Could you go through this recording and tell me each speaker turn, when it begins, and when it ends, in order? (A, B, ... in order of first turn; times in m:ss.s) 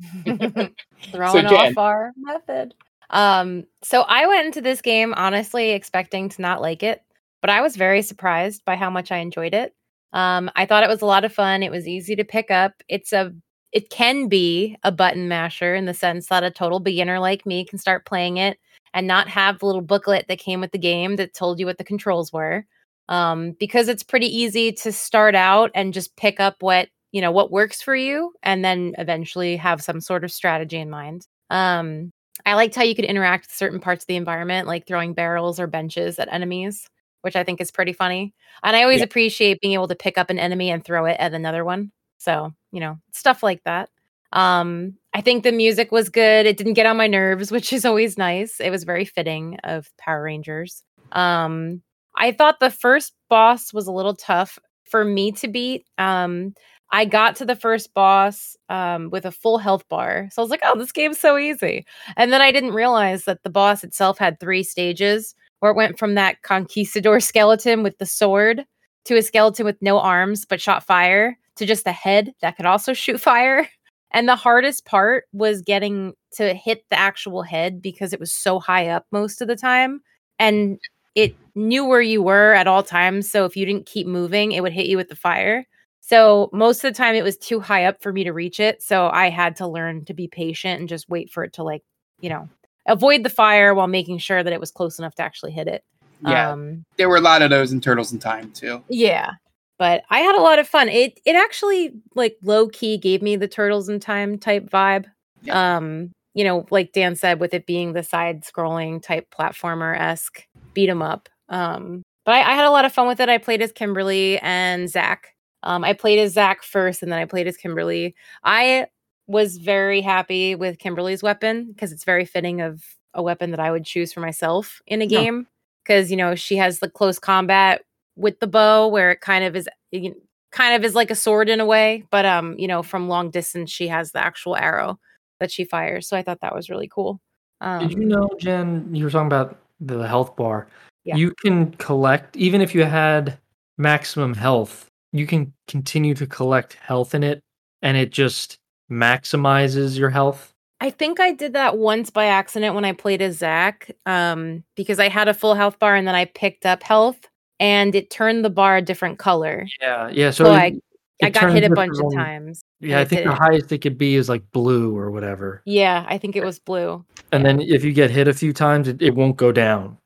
0:00.2-1:36.8 A
0:00.2-0:00.7 B
0:01.3-0:01.8 B
1:36.2-1:38.8 B
1:38.9-2:18.1 A
2:17.8-2:30.5 C
2:30.8-2:39.7 A
2:39.7-2:45.6 C
2:40.4-2:43.4 A
2:45.6-2:47.5 A
2:47.3-2:50.0 C